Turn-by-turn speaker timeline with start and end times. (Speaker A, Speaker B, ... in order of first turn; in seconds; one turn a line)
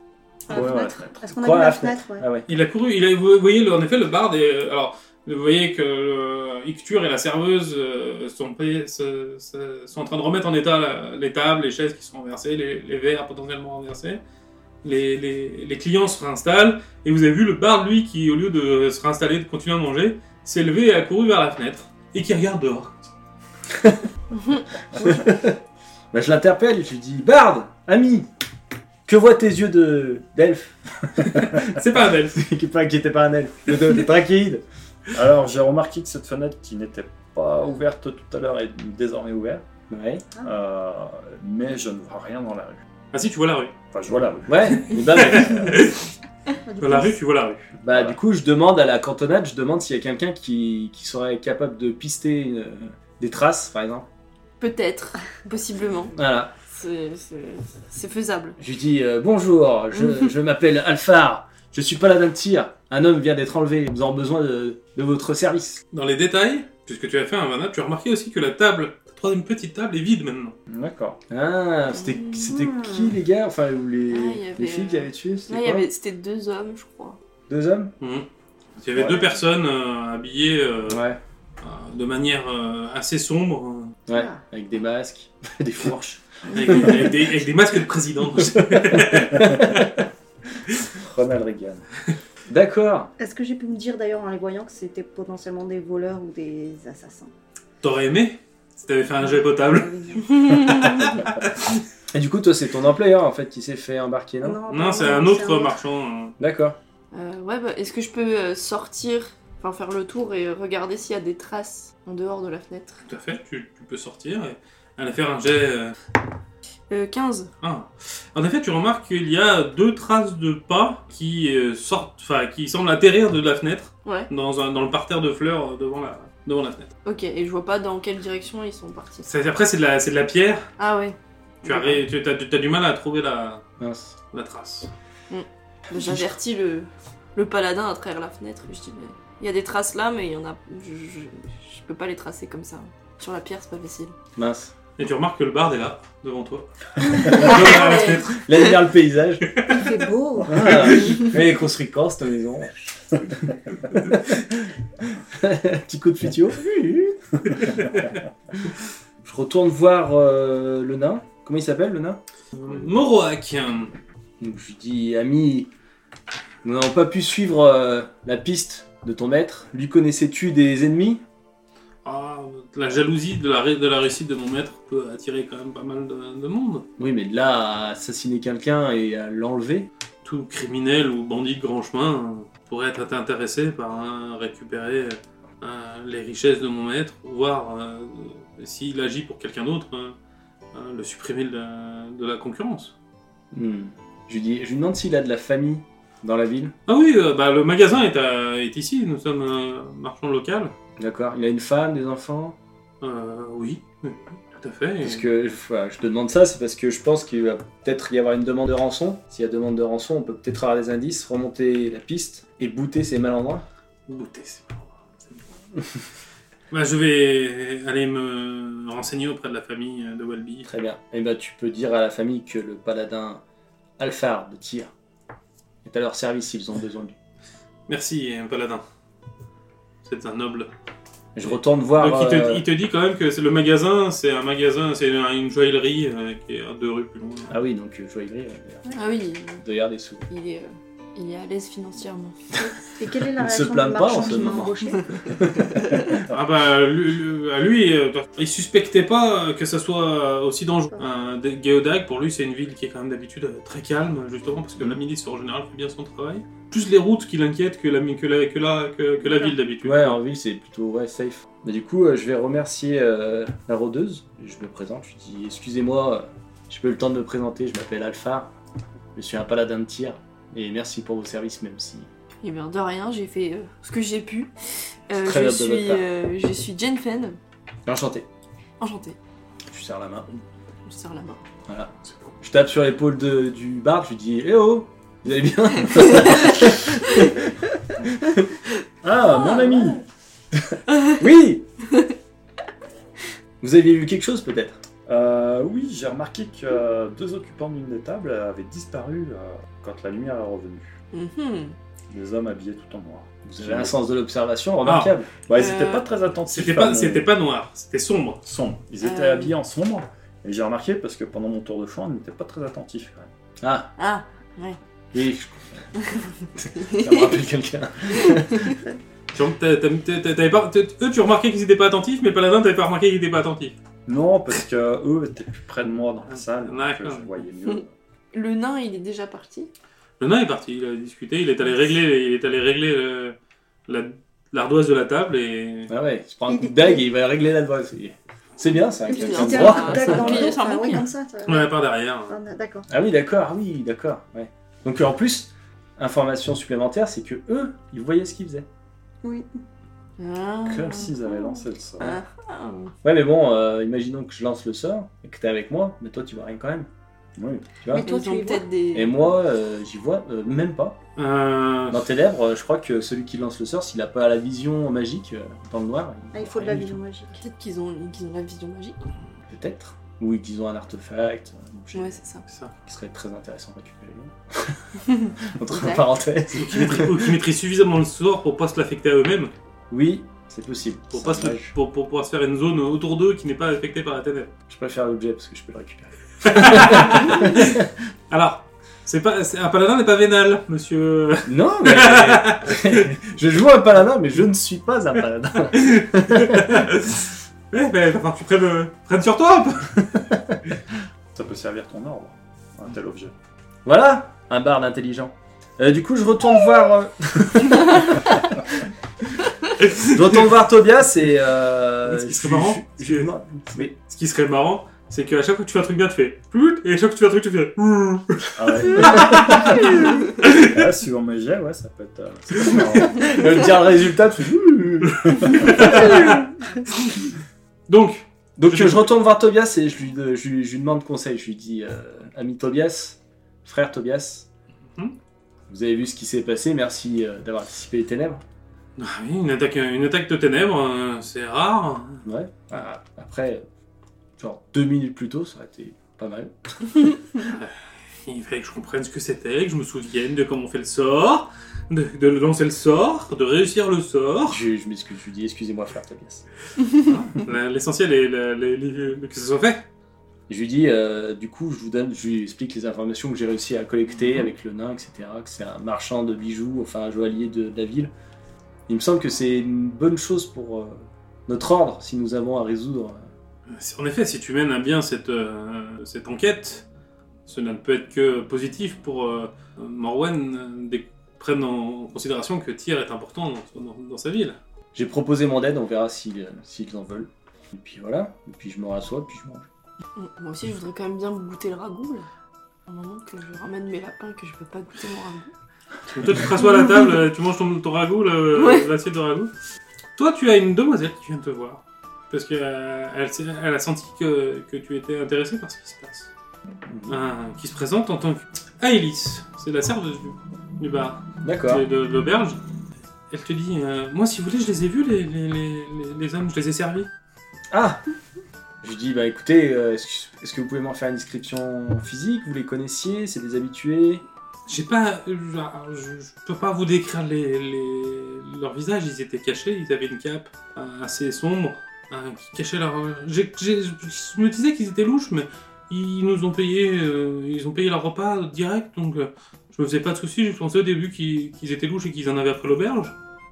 Speaker A: 0.5-2.3
Speaker B: 0.5-1.2
Speaker C: 0.5-2.5
Speaker D: 2.5-14.2
Speaker D: 14.8-23.1
Speaker C: 23.7-24.0
Speaker C: 24.9-25.6
Speaker C: 26.1-28.3
Speaker C: 29.1-34.6
Speaker D: 31.2-32.4
Speaker B: 35.1-39.6
Speaker C: 39.9-40.2
Speaker B: 40.4-42.8
Speaker D: 43.1-43.7
Speaker B: 43.9-44.8
Speaker C: 44.5-45.9
Speaker D: 44.8-46.0
Speaker A: 46.6-47.2
Speaker D: 46.8-47.6
Speaker C: 47.8-54.1
Speaker B: 47.9-48.1
Speaker E: 54.6-56.1
Speaker C: 56.1-56.5
Speaker E: 56.7-58.6
Speaker C: 58.6-65.8
Speaker D: 65.9-70.5
Speaker B: 70.7-71.2
Speaker C: 71.3-75.9
Speaker A: 72.5-73.1
Speaker E: 74.1-77.2
Speaker C: 77.5-77.9
Speaker D: 78.0-78.3
Speaker D: 78.8-81.0
Speaker B: 78.9-79.2
Speaker C: 80.9-81.2
Speaker D: 81.6-83.9
Speaker C: 84.1-86.2
Speaker A: 84.1-84.4
Speaker D: 86.5-89.9
Speaker C: 88.9-89.7
Speaker B: 91.0-91.8
Speaker C: 92.5-93.1
Speaker A: 93.2-97.3
Speaker D: 97.8-101.8
Speaker A: 99.2-100.9
Speaker C: 102.1-104.6
Speaker A: 104.4-105.8
Speaker D: 104.7-106.3
Speaker C: 106.4-106.8
Speaker E: 107.1-113.0
Speaker D: 113.1-116.0
Speaker E: 116.9-117.5
Speaker D: 117.6-126.9
Speaker E: 127.0-129.3
Speaker D: 129.2-130.7
Speaker E: 130.8-132.0
Speaker D: 131.6-133.6
Speaker C: 133.8-134.1
Speaker D: 134.3-134.9
Speaker E: 135.3-144.1
Speaker C: 135.9-136.4
Speaker C: 144.3-144.7
Speaker D: 145.0-148.4
Speaker E: 147.1-148.6
Speaker C: 147.3-149.4
Speaker D: 149.5-149.8
Speaker A: 149.6-151.0
Speaker C: 150.4-152.7
Speaker C: 153.9-154.7
Speaker C: 155.3-157.6
Speaker D: 157.5-158.2
Speaker C: 159.2-162.2
Speaker D: 162.5-163.9
Speaker C: 164.4-165.7
Speaker C: 166.6-171.2
Speaker D: 172.0-176.8
Speaker C: 177.0-179.9
Speaker D: 180.2-190.2
Speaker D: 190.7-192.9
Speaker C: 193.5-196.7
Speaker D: 196.9-200.7
Speaker C: 201.0-202.6
Speaker D: 203.0-205.2
Speaker C: 205.0-213.6
Speaker D: 214.1-214.9
Speaker D: 216.7-220.7
Speaker C: 220.7-223.4
Speaker C: 224.0-224.9
Speaker C: 225.8-227.2
Speaker D: 227.9-228.8
Speaker D: 230.0-230.7
Speaker C: 231.3-232.7
Speaker D: 231.4-237.6
Speaker C: 237.5-238.8
Speaker E: 238.9-239.6
Speaker C: 239.6-240.3
Speaker E: 240.3-242.3
Speaker A: 243.0-245.1
Speaker C: 243.4-244.7
Speaker C: 245.2-246.2
Speaker D: 246.3-260.2
Speaker C: 259.8-268.5
Speaker C: 269.1-272.1
Speaker E: 272.4-274.5
Speaker E: 275.1-277.4
Speaker C: 275.1-276.0
Speaker C: 277.9-278.3
Speaker E: 278.8-279.2
Speaker C: 279.7-280.4
Speaker E: 280.9-281.4
Speaker C: 281.7-288.5
Speaker E: 286.2-286.5
Speaker B: 289.0-290.0
Speaker E: 289.3-290.0
Speaker C: 290.5-291.6
Speaker C: 293.6-294.8
Speaker B: 295.1-300.9
Speaker E: 301.1-301.8
Speaker B: 302.1-303.9
Speaker C: 303.4-305.3
Speaker D: 304.8-305.1
Speaker B: 305.4-307.3
Speaker E: 305.5-306.1
Speaker D: 306.5-308.4
Speaker B: 308.4-313.3
Speaker E: 309.0-309.5
Speaker C: 313.6-313.9
Speaker E: 314.0-314.8
Speaker C: 315.1-315.6
Speaker C: 316.6-318.8
Speaker E: 316.8-317.2
Speaker E: 318.2-318.7
Speaker D: 319.3-323.8
Speaker B: 324.1-327.9
Speaker D: 326.3-327.3
Speaker E: 328.3-329.7
Speaker D: 330.2-333.4
Speaker D: 333.9-335.9
Speaker C: 335.9-340.5
Speaker A: 336.5-337.0
Speaker E: 339.1-341.1
Speaker A: 339.1-341.7
Speaker D: 341.4-342.4
Speaker A: 342.3-342.9
Speaker C: 342.9-348.6
Speaker A: 349.2-349.5
Speaker E: 350.2-352.9
Speaker B: 350.6-352.2
Speaker C: 353.0-356.9
Speaker B: 357.4-357.8
Speaker C: 357.8-358.1
Speaker A: 357.9-358.7
Speaker E: 358.0-359.3
Speaker C: 358.9-361.0
Speaker D: 361.1-362.1
Speaker C: 361.9-367.0
Speaker A: 366.3-367.4
Speaker E: 367.4-369.0
Speaker C: 369.5-372.2
Speaker E: 371.9-372.4
Speaker D: 372.4-372.7
Speaker C: 372.8-377.3
Speaker E: 375.2-376.1
Speaker D: 376.5-379.5
Speaker C: 379.9-381.7
Speaker D: 381.1-384.5
Speaker C: 384.7-387.9
Speaker D: 386.4-393.2
Speaker C: 391.4-396.8
Speaker D: 395.7-400.1
Speaker B: 401.3-403.3
Speaker C: 403.8-408.4
Speaker D: 409.8-410.3
Speaker C: 410.1-413.9
Speaker D: 412.0-413.3
Speaker D: 414.0-420.8
Speaker B: 418.6-423.4
Speaker C: 423.0-426.4
Speaker D: 425.2-426.4
Speaker D: 427.9-429.1
Speaker C: 428.6-434.5
Speaker C: 435.7-438.4
Speaker D: 439.0-442.2
Speaker C: 442.2-443.6
Speaker C: 444.4-447.2
Speaker D: 447.4-454.6
Speaker C: 454.5-456.4
Speaker D: 457.0-459.9
Speaker C: 460.5-468.1
Speaker C: 468.9-473.3
Speaker D: 473.7-476.9
Speaker D: 477.4-484.6
Speaker C: 484.9-489.6
Speaker E: 490.1-492.3
Speaker E: 492.9-495.5
Speaker D: 496.1-499.5
Speaker E: 498.6-498.9
Speaker D: 500.1-506.3
Speaker C: 506.9-507.2
Speaker D: 507.1-512.6
Speaker C: 511.4-511.8
Speaker D: 513.3-517.1
Speaker C: 517.7-518.0
Speaker C: 518.8-524.2
Speaker D: 524.7-543.1